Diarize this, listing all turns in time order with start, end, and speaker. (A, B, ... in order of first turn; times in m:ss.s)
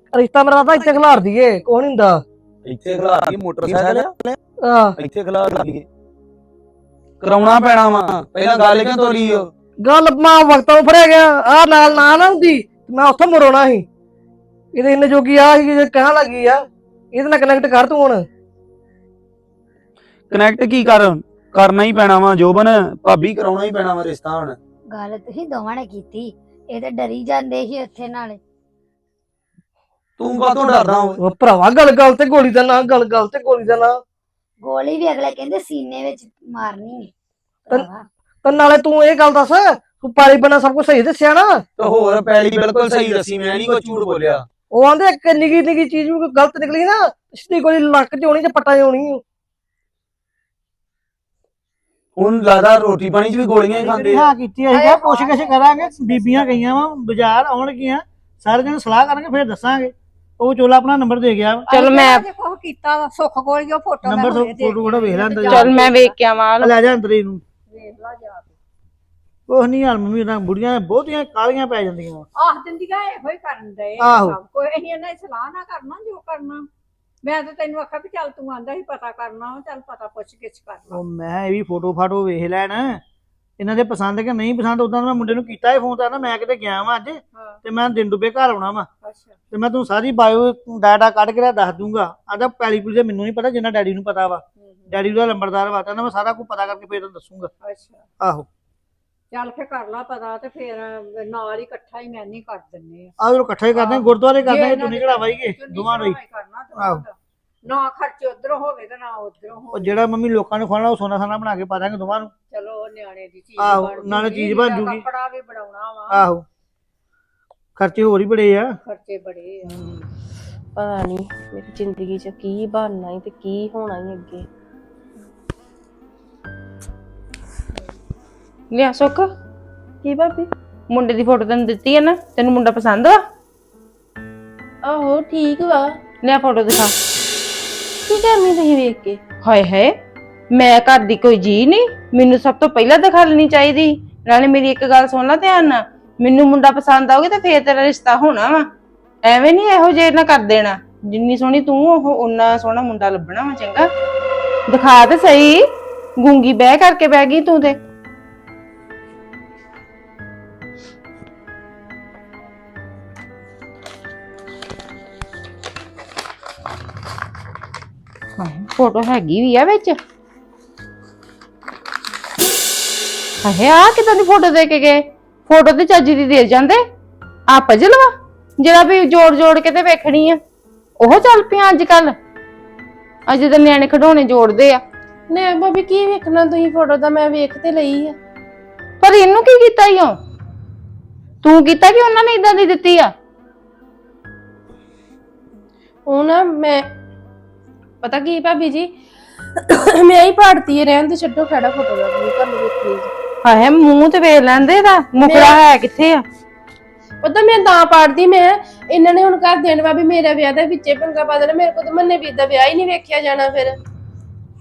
0:00.1-0:02.2 A
0:02.6-0:04.1 B
0:04.6-0:05.0 A
0:05.0-0:05.8 B
0:07.2-0:09.5 B
0:09.8-0:13.8 A
0:14.7-0:16.6 A
0:17.1-0:18.2 A
0:20.3-0:24.6 B
0:24.9-0:28.4 C
0:30.2-0:31.2 B
0:31.2-0:33.9 A
0:34.6-0:37.1 C
0:37.7-0:38.0 C
0:38.4-0:41.6 A
0:41.8-0:44.4 B
0:44.7-0:49.2 A
0:52.2-0:54.2 B
0:53.8-1:01.7 D
0:54.7-0:56.6 E
1:01.7-1:06.1 E
1:01.7-1:02.2 F
1:04.0-1:05.7 D
1:05.4-1:06.7 F
1:06.6-1:07.4 D
1:07.7-1:08.5 E
1:09.5-1:12.2 D
1:12.4-1:16.7 E
1:14.0-1:14.4 D
1:17.2-1:21.0 E
1:20.9-1:23.0 D
1:23.6-1:28.9 D
1:29.0-1:29.4 E
1:29.5-1:37.5 D
1:34.6-1:34.9 E
1:37.6-1:38.0 E
1:38.2-1:38.5 D
1:39.3-1:43.1 E
1:43.2-1:46.2 D
1:43.7-1:50.0 E
1:46.7-1:47.0 D
1:49.7-1:52.3 D
1:52.5-1:56.2 E
1:53.6-1:55.0 D
1:56.1-1:56.4 D
1:57.8-1:58.7 D
1:58.8-2:00.0 E
2:00.8-2:04.4 G
2:08.7-2:09.3 F
2:10.0-2:13.2 F
2:14.8-2:16.0 G
2:16.2-2:16.9 F
2:18.1-2:19.2 G
2:19.4-2:19.9 F
2:20.5-2:28.6 F
2:29.2-2:33.9 F
2:34.7-2:35.6 F
2:36.2-2:37.8 F
2:48.4-2:50.0 F
2:53.4-2:56.8 F
2:57.5-3:00.4 F
3:01.0-3:02.1 F
3:03.3-3:04.8 F
3:05.3-3:08.2 G
3:09.0-3:10.2 F
3:11.4-3:13.1 F
3:16.1-3:16.8 G
3:18.0-3:18.9 G
3:19.7-3:23.1 G
3:23.4-3:26.2 F
3:25.2-3:25.6 G
3:27.2-3:33.8 G